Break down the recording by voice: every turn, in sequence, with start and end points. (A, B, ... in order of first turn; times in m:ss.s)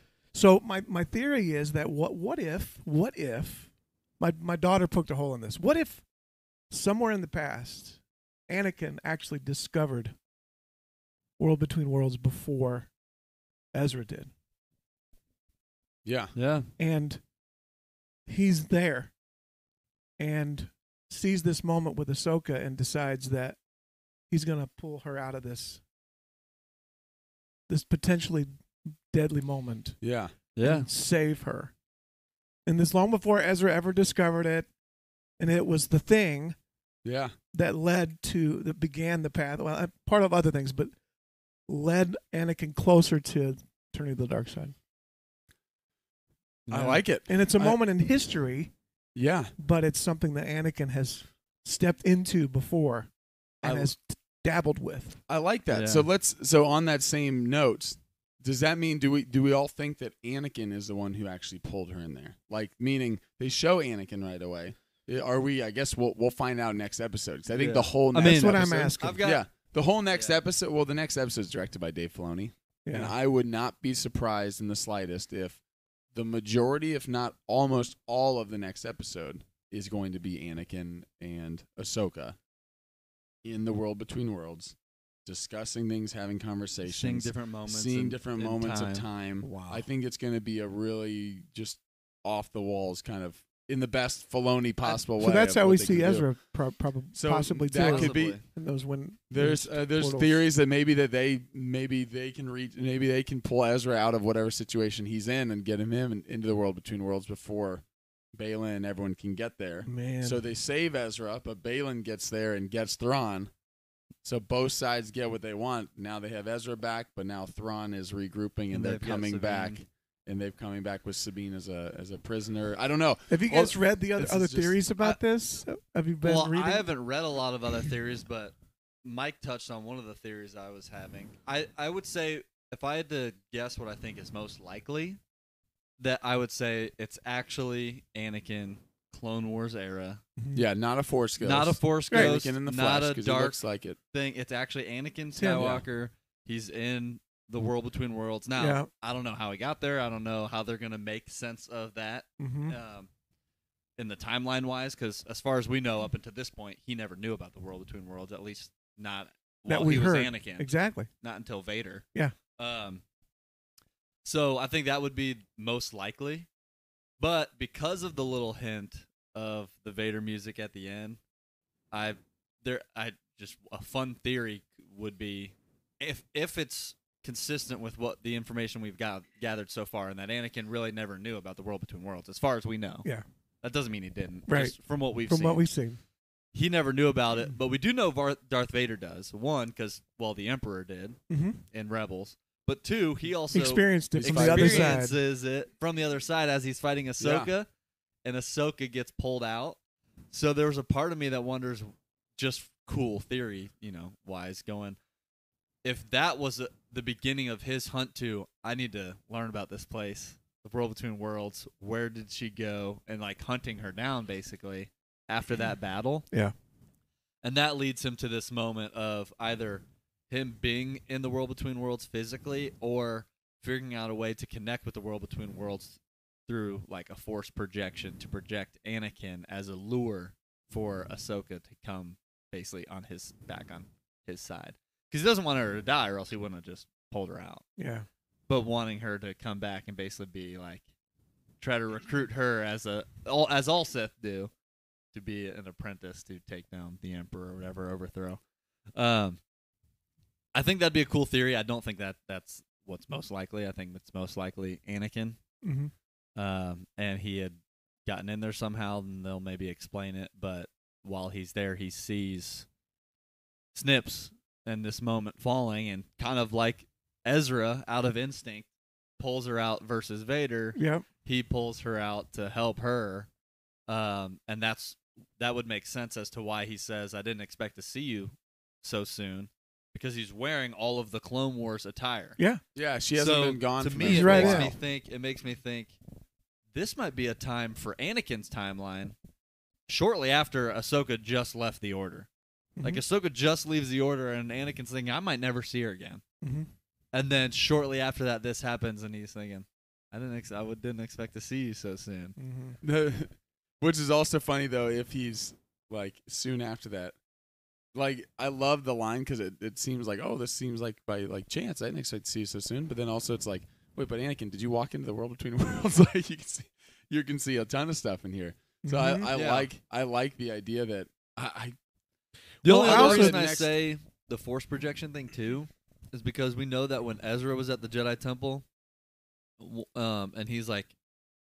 0:00.3-0:06.0 A
0:06.7-0:10.1 A
0:11.4-0:12.9 A
0:13.7-0:14.3 A
0:16.0-0:16.3 B
0:16.4-0:16.7 C
0:16.8-0:17.2 A
0:18.3-0:19.1 A
0:20.2-0:23.6 A
0:24.3-0:25.8 A
0:27.7-0:30.0 A
0:30.0-0:30.3 B
0:30.6-0:30.9 C
0:30.6-0:31.7 A
0:32.6-0:34.7 A
0:35.4-0:36.6 A
0:37.0-0:37.3 B
0:37.5-0:40.9 A
0:41.7-0:44.7 A
0:46.7-0:47.0 C
0:46.7-0:47.8 B
0:47.3-0:48.7 A
0:49.1-0:49.5 B
0:49.6-0:53.1 A
0:53.6-0:55.2 A
0:53.6-0:53.9 B
0:55.3-1:15.6 B
0:55.7-0:56.0 C
1:07.5-1:09.4 C
1:08.2-1:09.2 A
1:12.8-1:13.1 A
1:16.1-1:22.4 B
1:23.4-1:36.3 B
1:26.8-1:29.0 C
1:29.4-1:29.8 A
1:34.8-1:40.4 A
1:37.1-1:38.4 B
1:37.7-1:38.4 C
1:39.3-1:53.5 B
1:49.8-1:50.4 A
1:54.2-2:04.8 B
1:58.7-1:59.8 C
2:03.3-2:06.9 A
2:06.2-2:15.2 C
2:16.0-2:20.2 C
2:20.4-2:20.6 A
2:20.5-2:24.0 B
2:21.4-2:23.6 C
2:24.1-2:33.1 C
2:25.4-2:25.8 A
2:25.6-2:25.8 B
2:28.6-2:28.9 A
2:32.4-2:32.8 A
2:34.0-2:42.0 C
2:39.7-2:41.1 A
2:42.6-2:43.0 C
2:44.2-2:46.5 C
2:47.2-2:51.2 C
2:51.9-3:03.0 C
3:03.6-3:05.6 C
3:04.5-3:04.8 A
3:05.3-3:06.0 A
3:06.5-3:11.2 C
3:11.3-3:11.6 A
3:11.7-3:17.7 C
3:13.5-3:15.2 A
3:14.2-3:15.0 B
3:17.2-3:17.5 B
3:18.2-3:19.8 C
3:20.3-3:25.0 C
3:25.8-3:36.2 C
3:37.4-3:57.6 C
3:57.8-3:58.0 A
3:58.5-4:00.8 C
4:01.6-4:04.5 C
4:05.1-4:08.4 C
4:08.9-4:09.4 C
4:10.5-4:15.4 C
4:15.6-4:15.9 A
4:16.4-4:22.6 C
4:23.7-4:28.7 C
4:29.2-4:33.3 C
4:30.8-4:31.0 A
4:33.9-4:42.4 C
4:42.7-4:44.7 B
4:43.2-4:45.9 C
4:44.0-4:44.7 A
4:46.7-4:49.1 C
4:49.9-4:52.3 C
4:52.8-4:53.0 A
4:52.8-4:56.2 C
4:56.4-4:56.7 A
4:57.1-5:02.4 C
5:02.4-5:02.8 A
5:02.8-5:07.1 B
5:07.9-5:21.8 B
5:18.8-5:19.3 A
5:19.3-5:19.7 C
5:22.6-5:23.4 A
5:22.6-5:28.6 C
5:22.7-5:23.7 B
5:29.6-5:30.9 C